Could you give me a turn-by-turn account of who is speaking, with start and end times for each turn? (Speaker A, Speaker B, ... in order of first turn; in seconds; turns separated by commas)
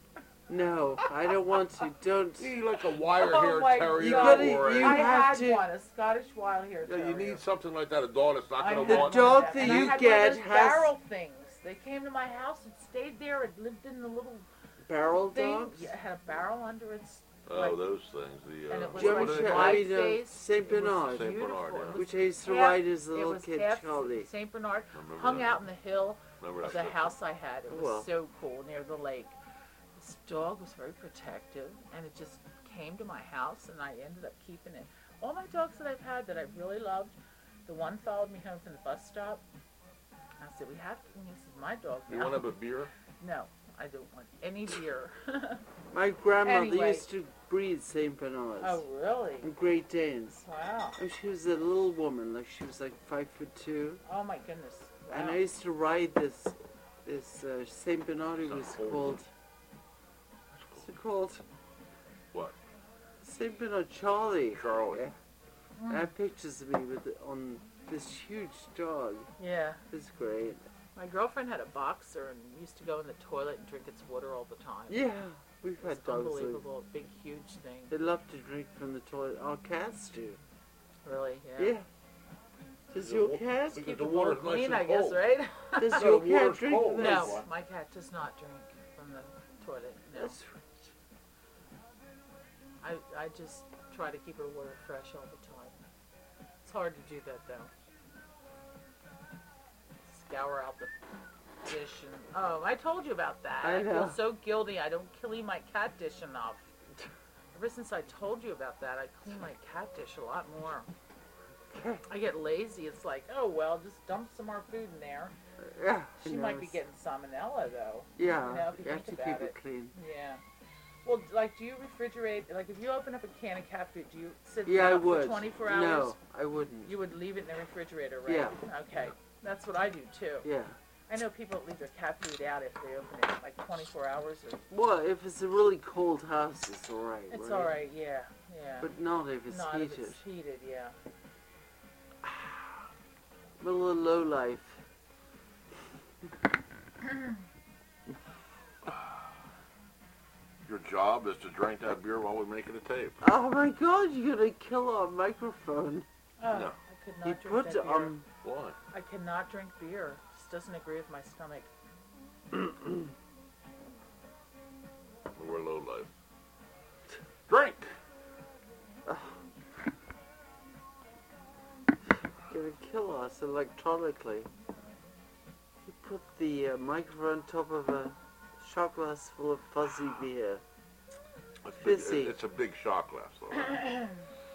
Speaker A: 0.5-2.5, Speaker B: 2.4-5.2, Speaker C: 3.1-7.4, Speaker A: 4.0-5.6, Speaker B: 6.8-10.0, Speaker C: 8.6-14.5, Speaker A: 8.8-10.9, Speaker A: 14.8-15.9, Speaker C: 15.3-17.8, Speaker B: 17.5-19.9, Speaker C: 18.7-29.4, Speaker A: 19.0-21.4, Speaker B: 20.8-22.0, Speaker A: 21.9-24.3, Speaker B: 24.9-25.6, Speaker B: 26.4-27.1, Speaker A: 27.7-28.1, Speaker C: 30.0-39.4, Speaker C: 40.4-42.5, Speaker B: 42.1-42.9, Speaker C: 43.2-45.6, Speaker A: 45.9-48.8, Speaker C: 46.4-47.1, Speaker C: 48.6-49.5, Speaker A: 49.4-50.4, Speaker C: 50.4-51.0, Speaker A: 51.0-54.0, Speaker C: 54.0-55.4, Speaker A: 55.1-59.3, Speaker B: 58.4-59.2, Speaker B: 60.5-60.9, Speaker A: 60.8-61.4, Speaker A: 63.2-65.2, Speaker B: 64.5-65.0, Speaker C: 65.8-66.1, Speaker A: 65.9-69.3, Speaker C: 69.4-69.8, Speaker A: 69.9-70.6, Speaker C: 71.0-75.0, Speaker A: 74.9-76.6, Speaker C: 75.8-77.9, Speaker A: 77.9-80.4, Speaker C: 81.0-81.8, Speaker A: 81.6-81.9, Speaker A: 82.9-84.3, Speaker B: 83.0-85.2, Speaker C: 83.8-86.1, Speaker A: 85.8-87.5, Speaker B: 86.0-87.5, Speaker C: 87.0-90.4, Speaker A: 90.2-90.9, Speaker C: 92.8-95.8, Speaker C: 96.6-97.7, Speaker C: 100.1-100.9, Speaker C: 101.7-106.7, Speaker A: 103.6-104.2, Speaker C: 107.5-110.9, Speaker A: 111.7-112.0, Speaker C: 112.1-115.3, Speaker A: 115.6-116.8, Speaker C: 116.2-120.4, Speaker A: 118.2-119.9, Speaker C: 121.0-126.2, Speaker A: 124.7-126.9, Speaker C: 126.8-130.5, Speaker A: 128.3-128.6, Speaker A: 130.4-130.8, Speaker C: 131.1-134.6, Speaker A: 134.7-137.8, Speaker C: 137.3-138.9, Speaker A: 138.8-140.2, Speaker C: 139.5-140.9, Speaker A: 143.6-144.8, Speaker B: 150.7-153.2, Speaker A: 153.2-156.1, Speaker C: 156.4-158.1, Speaker A: 157.2-158.3, Speaker B: 158.4-158.8, Speaker C: 158.9-161.7, Speaker B: 165.3-166.1, Speaker B: 167.5-167.9, Speaker A: 169.1-169.4, Speaker A: 172.5-174.5, Speaker A: 175.8-180.6, Speaker B: 181.7-183.8, Speaker A: 181.8-182.3